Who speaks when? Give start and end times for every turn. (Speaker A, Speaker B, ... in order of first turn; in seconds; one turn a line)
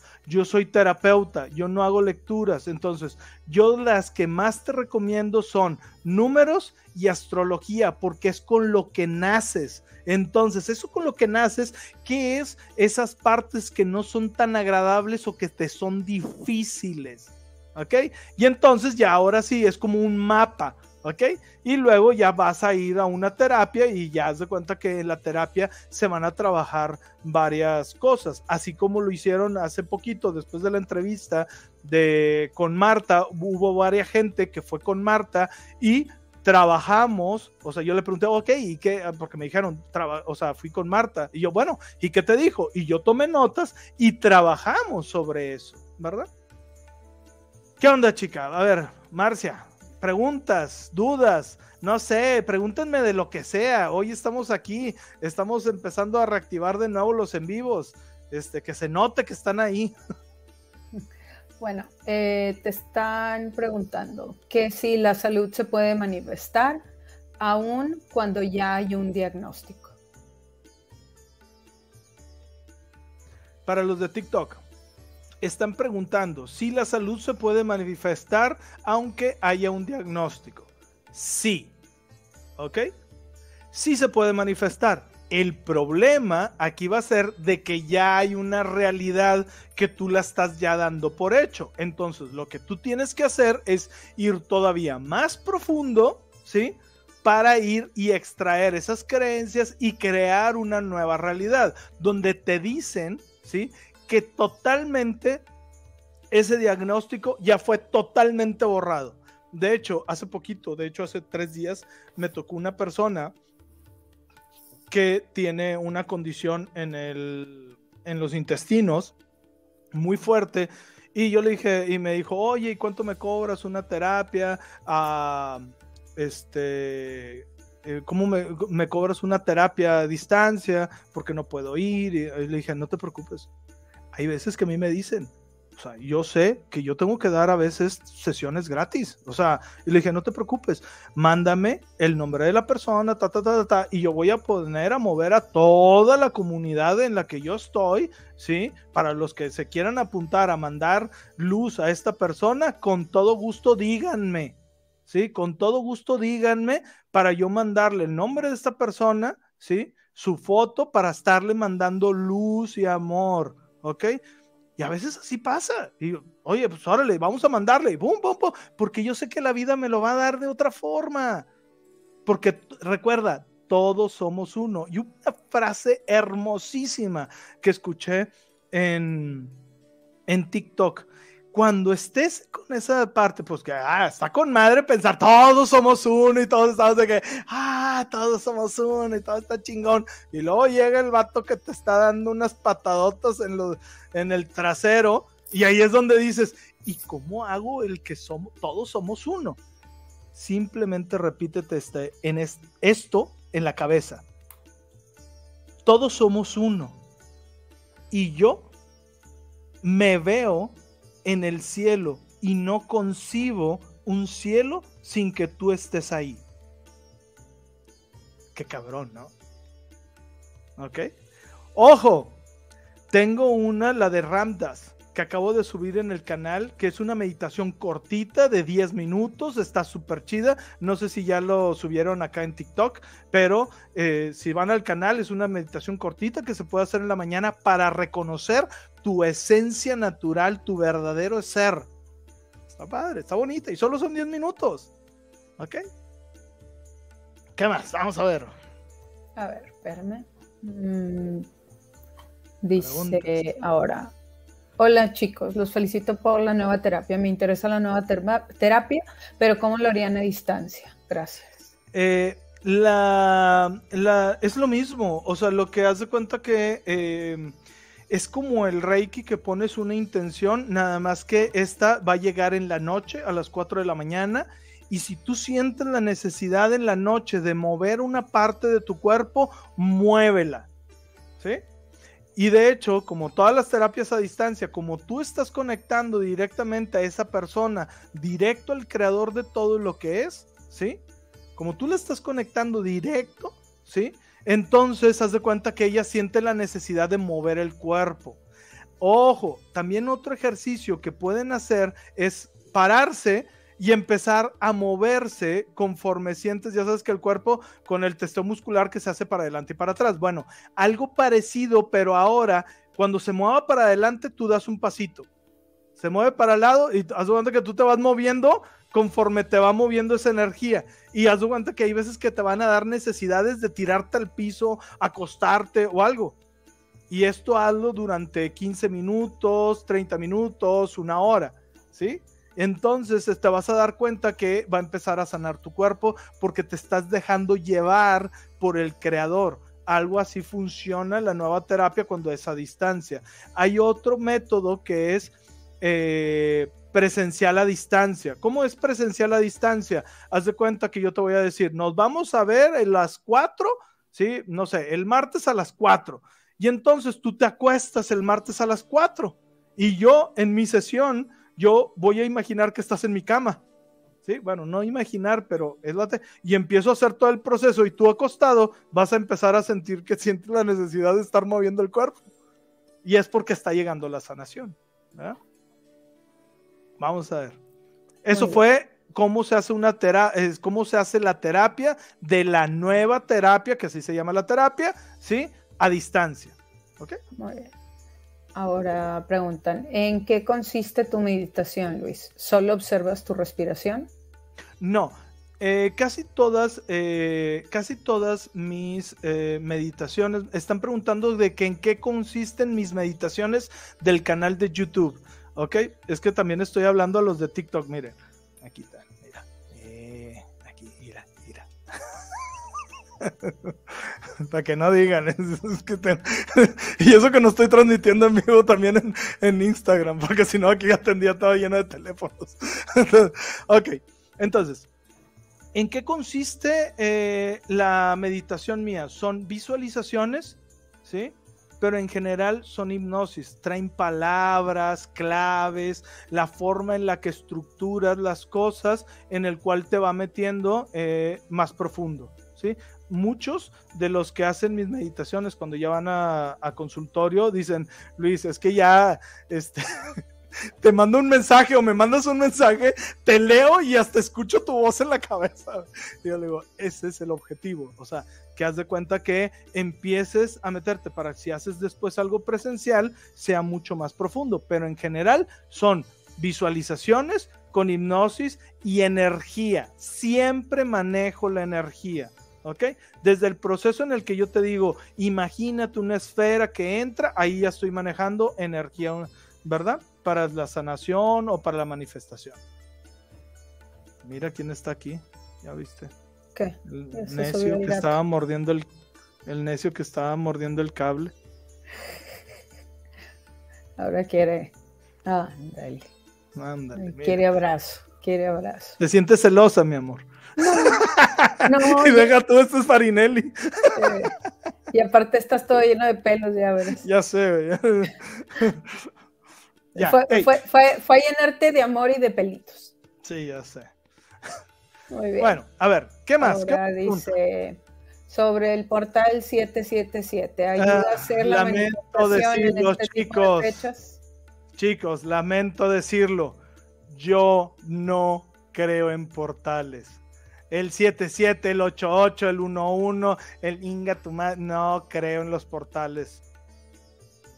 Speaker A: 0.2-46.3
Speaker A: 47.8-59.9
Speaker B: 61.6-66.8
Speaker B: 67.4-69.9
Speaker A: 73.7-74.6
Speaker A: 75.4-81.7
Speaker A: 82.6-82.9
Speaker A: 83.7-105.4
Speaker A: 106.3-113.3
Speaker A: 114.9-119.1
Speaker A: 119.9-133.5
Speaker A: 134.1-154.6
Speaker A: 155.1-164.2
Speaker A: 164.8-171.5
Speaker A: 172.2-179.5
Speaker A: 180.3-199.6
Speaker A: 200.3-204.2
Speaker A: 205.8-207.0
Speaker A: 208.1-208.7
Speaker A: 209.8-216.4
Speaker A: 218.5-219.3
Speaker A: 220.8-221.1
Speaker A: 221.7-222.3
Speaker A: 223.1-241.9
Speaker A: 242.7-244.9
Speaker A: 247.6-248.5
Speaker B: 249.3-251.5
Speaker B: 252.6-254.1
Speaker A: 252.8-253.5
Speaker B: 254.8-261.6
Speaker A: 261.9-267.5
Speaker A: 268.1-280.7
Speaker A: 282.4-291.0
Speaker A: 291.6-298.4
Speaker A: 299.0-315.3
Speaker A: 315.9-326.4
Speaker A: 327.1-363.6
Speaker A: 364.2-372.2
Speaker A: 373.0-375.4
Speaker A: 377.0-377.6
Speaker A: 378.2-387.2
Speaker B: 378.3-378.6
Speaker B: 387.4-387.7
Speaker B: 388.5-394.1
Speaker A: 394.8-411.7
Speaker A: 413.2-413.7
Speaker A: 414.4-424.9
Speaker A: 425.7-450.2
Speaker A: 450.8-482.6
Speaker A: 484.2-486.1
Speaker B: 486.5-488.1
Speaker A: 486.8-488.9
Speaker A: 489.4-491.3
Speaker B: 494.0-494.7
Speaker B: 495.2-496.1
Speaker A: 496.6-497.4
Speaker B: 496.9-499.0
Speaker A: 499.0-504.2
Speaker B: 500.6-501.0
Speaker B: 501.6-502.3
Speaker B: 503.9-504.3
Speaker B: 504.9-507.0
Speaker A: 507.0-508.9
Speaker A: 509.9-510.5
Speaker B: 510.0-512.9
Speaker A: 513.2-513.9
Speaker B: 515.1-515.6
Speaker A: 515.4-517.3
Speaker B: 516.4-524.2
Speaker A: 520.8-523.8
Speaker A: 524.8-530.2
Speaker A: 530.7-536.4